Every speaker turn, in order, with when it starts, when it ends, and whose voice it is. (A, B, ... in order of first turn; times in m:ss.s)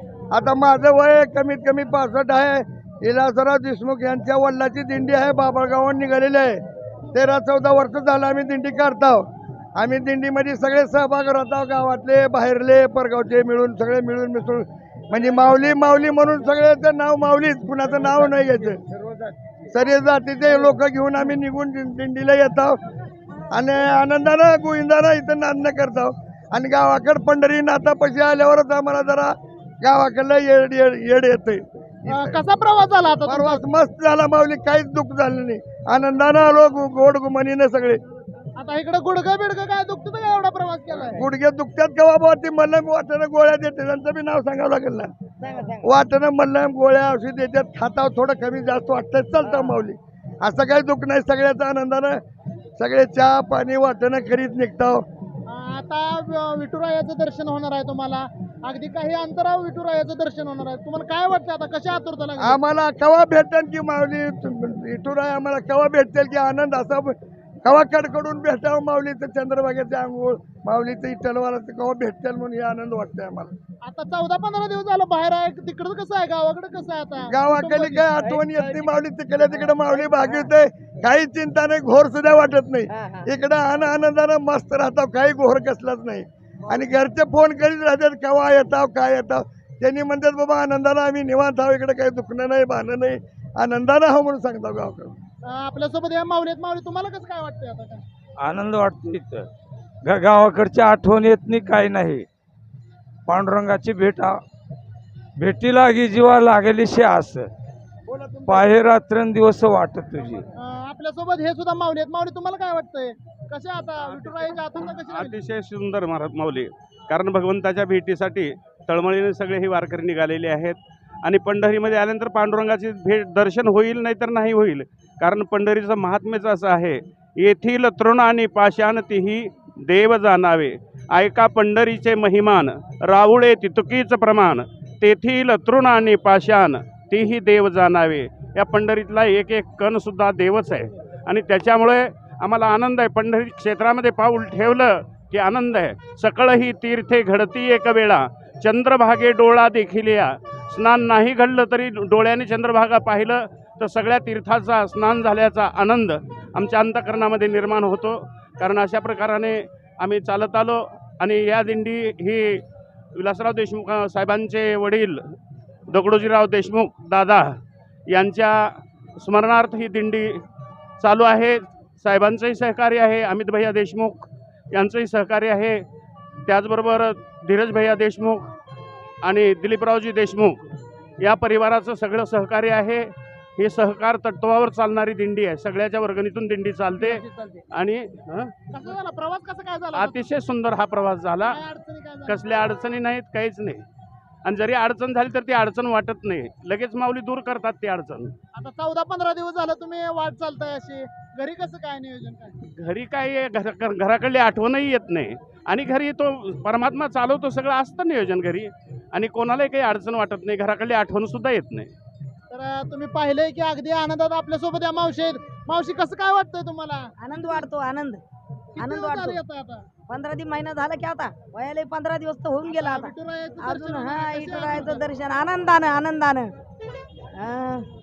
0:00.3-0:06.6 A
0:07.1-0:09.2 A
0:09.8-0:18.8 A
0:19.7-0:22.8 A
0:23.5-0:32.4 A
0:32.1-0:33.6 B
0:33.3-0:38.0 A
0:38.6-0:41.3 B
0:41.1-0:45.1 A
0:45.5-0:45.7 C
0:45.8-0:52.2 A
0:52.8-0:55.0 A
0:55.5-1:02.6 B
1:02.4-1:13.5 A
1:13.8-1:18.0 B
1:17.3-1:35.2 A
1:35.5-1:38.0 B
1:38.4-1:39.5 D
1:40.0-1:42.3 D
1:43.3-1:44.4 D
1:45.4-1:47.5 D
1:48.1-1:48.8 A
1:48.5-1:50.4 D
1:50.6-1:55.4 B
1:55.1-2:42.6 E
2:43.2-2:45.2 E
2:45.9-2:47.6 E
2:48.1-2:48.7 E
2:49.2-2:50.4 E
2:51.0-2:55.8 E
2:56.5-2:58.5 E
2:59.2-3:00.7 E
3:01.2-3:08.5 E
3:08.7-3:10.3 B
3:09.9-3:11.6 E
3:11.4-3:12.6 B
3:12.3-3:13.8 E
3:14.4-3:18.3 E
3:18.5-3:22.6 B
3:22.8-3:31.9 E
3:32.5-3:37.1 B
3:37.2-3:38.2 C
3:38.8-3:39.8 B
3:38.8-3:39.4 C
3:40.1-3:46.6 C
3:42.7-3:45.0 B
3:47.3-3:47.9 C